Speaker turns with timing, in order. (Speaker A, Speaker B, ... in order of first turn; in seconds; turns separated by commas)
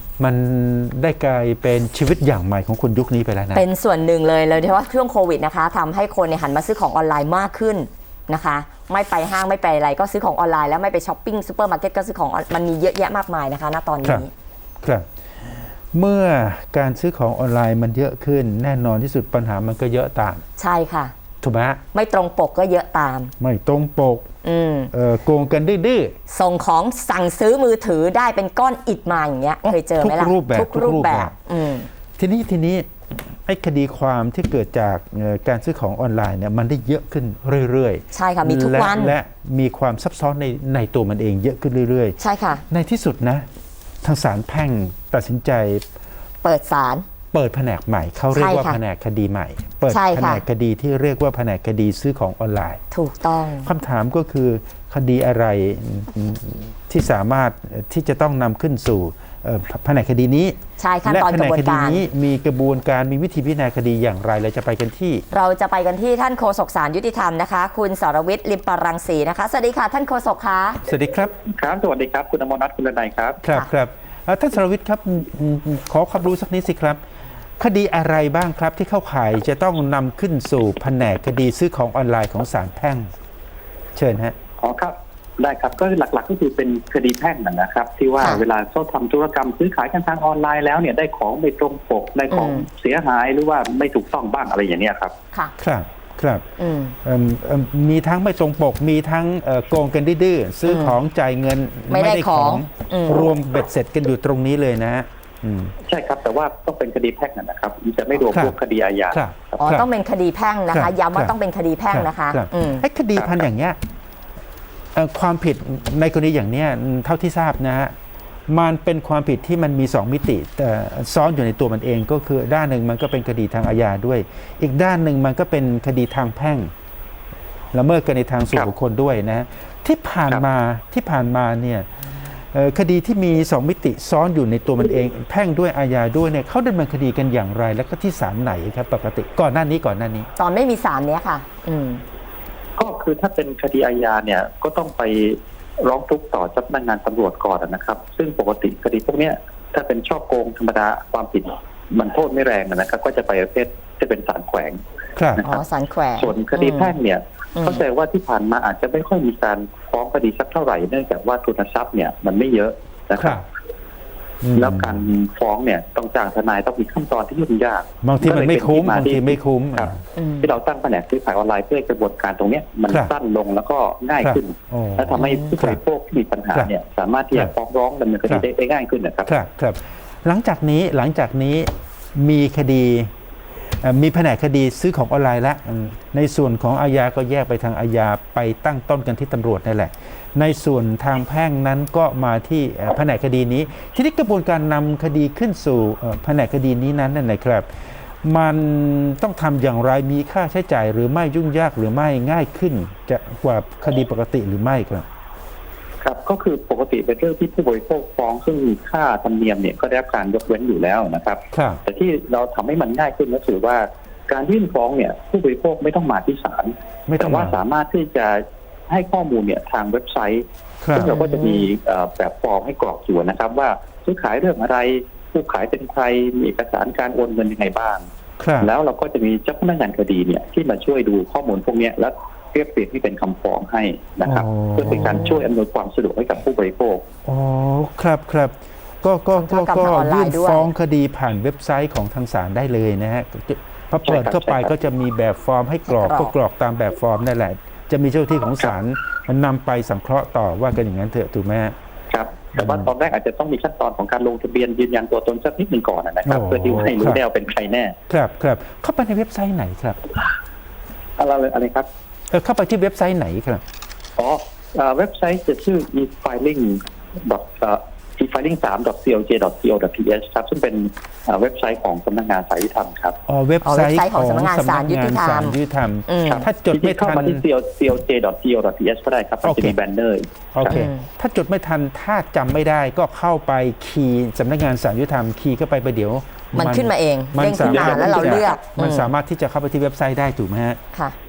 Speaker A: 0.2-3.6, Speaker B: 3.5-14.3, Speaker A: 15.9-20.4, Speaker B: 20.6-21.1, Speaker A: 21.4-21.8, Speaker B: 21.9-23.3, Speaker A: 23.4-24.3, Speaker B: 24.4-24.9, Speaker A: 24.9-26.1, Speaker B: 26.3-31.9, Speaker A: 29.6-31.4, Speaker A: 32.2-43.5, Speaker B: 38.1-39.2, Speaker B: 42.2-42.6, Speaker A: 44.0-45.8, Speaker B: 46.4-47.1, Speaker A: 47.3-52.8, Speaker B: 48.3-48.8, Speaker B: 49.9-50.4, Speaker B: 52.9-53.7, Speaker A: 53.6-65.2, Speaker B: 60.8-62.0, Speaker B: 65.3-70.8, Speaker A: 70.8-71.3, Speaker C: 71.4-73.4, Speaker A: 73.4-77.0, Speaker A: 77.6-83.1, Speaker A: 84.0-84.3, Speaker C: 84.6-95.2, Speaker B: 92.3-92.7, Speaker A: 95.6-96.5, Speaker B: 96.6-97.0, Speaker A: 97.0-105.7, Speaker B: 100.7-101.0, Speaker B: 101.9-103.3, Speaker C: 105.9-109.6, Speaker A: 109.1-109.9, Speaker B: 109.6-112.8, Speaker A: 110.7-111.3, Speaker A: 111.9-113.8, Speaker C: 113.2-113.5, Speaker A: 115.0-118.0, Speaker A: 118.5-126.7, Speaker A: 127.7-140.3, Speaker B: 140.4-142.0, Speaker C: 142.8-154.8, Speaker A: 155.2-155.4, Speaker C: 155.4-155.6, Speaker B: 155.4-156.9, Speaker C: 156.2-163.4, Speaker B: 157.6-157.8, Speaker A: 163.2-163.4, Speaker A: 164.4-165.0, Speaker C: 164.6-179.3, Speaker A: 168.0-170.0, Speaker B: 170.2-170.5, Speaker A: 174.2-175.8, Speaker B: 175.2-175.5, Speaker A: 179.3-183.1, Speaker A: 183.7-205.1, Speaker C: 206.0-228.1, Speaker A: 211.5-211.8, Speaker A: 217.1-217.6, Speaker A: 220.8-221.1, Speaker B: 221.1-221.7, Speaker A: 228.4-228.7, Speaker C: 228.6-237.1, Speaker A: 234.2-235.4, Speaker A: 237.3-251.7, Speaker B: 239.3-240.7, Speaker C: 244.0-244.8, Speaker B: 245.9-246.3, Speaker C: 252.1-257.9, Speaker A: 252.6-252.8, Speaker A: 256.2-257.2, Speaker A: 258.1-260.0, Speaker C: 261.2-261.9, Speaker A: 262.3-263.6, Speaker C: 264.2-273.2, Speaker A: 273.3-277.4, Speaker B: 273.6-275.6, Speaker B: 276.1-276.5, Speaker C: 276.3-280.9, Speaker A: 279.4-279.8, Speaker A: 280.5-290.8, Speaker B: 280.7-281.1, Speaker B: 286.5-289.1, Speaker C: 287.6-288.6